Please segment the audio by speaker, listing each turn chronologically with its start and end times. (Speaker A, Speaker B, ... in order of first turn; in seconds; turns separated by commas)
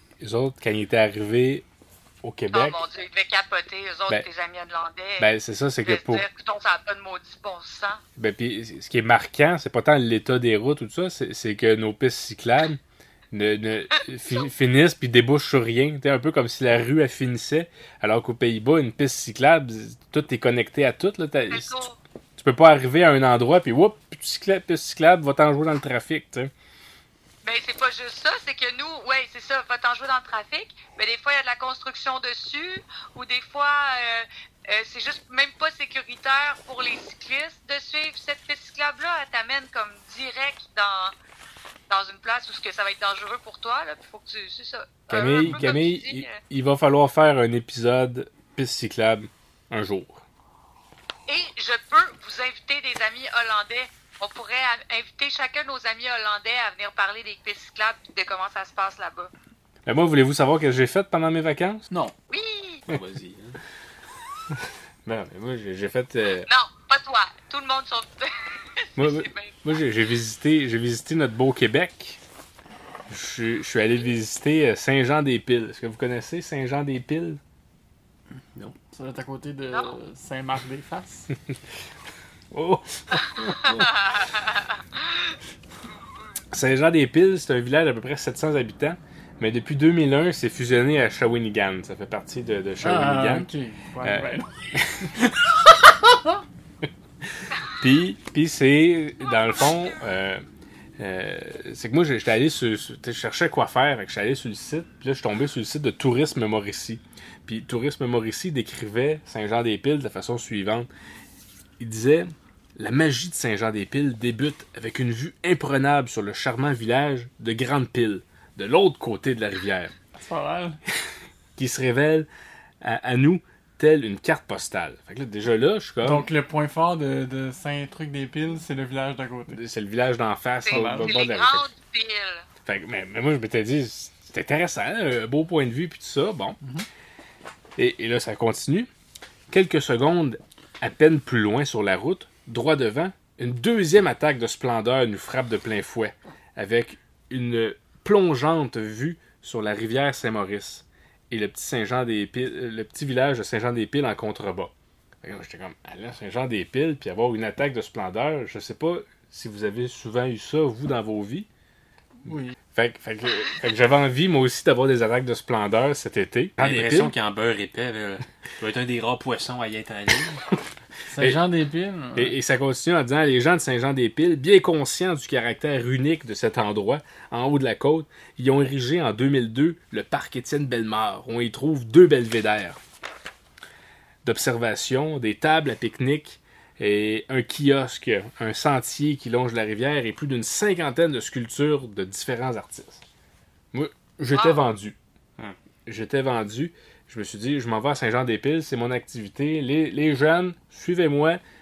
Speaker A: 0.2-1.6, Speaker A: 2.2-2.8, Speaker B: 2.5-5.3, Speaker A: 5.2-6.2, Speaker B: 5.8-8.0, Speaker A: 8.2-12.8, Speaker A: 13.3-21.8, Speaker B: 21.5-22.0, Speaker A: 22.4-26.5, Speaker B: 27.4-41.1, Speaker B: 41.9-46.4, Speaker A: 45.1-50.2, Speaker B: 51.3-59.3, Speaker A: 59.9-61.8, Speaker B: 62.3-62.8, Speaker C: 62.9-63.6, Speaker A: 65.0-66.5, Speaker B: 66.4-69.6, Speaker A: 69.0-72.2, Speaker A: 73.1-77.4, Speaker D: 78.9-81.3, Speaker A: 82.5-84.0, Speaker B: 83.4-85.3, Speaker A: 86.5-93.5, Speaker D: 92.8-95.1, Speaker A: 94.0-95.3, Speaker D: 96.1-96.3, Speaker A: 97.4-100.4, Speaker B: 99.3-99.8, Speaker A: 101.0-110.9, Speaker A: 111.8-119.9, Speaker D: 120.1-120.8, Speaker A: 121.5-122.3, Speaker A: 122.8-126.3, Speaker D: 126.0-129.6, Speaker A: 129.5-131.7, Speaker B: 130.6-132.4, Speaker D: 130.7-131.1, Speaker A: 132.6-136.6, Speaker A: 137.8-138.9, Speaker A: 139.5-161.5, Speaker D: 162.2-162.5, Speaker A: 162.7-167.1, Speaker C: 166.6-170.5, Speaker D: 171.1-172.3, Speaker A: 172.1-182.8, Speaker A: 184.2-193.0, Speaker A: 193.7-194.9, Speaker B: 194.3-194.6, Speaker A: 195.8-201.4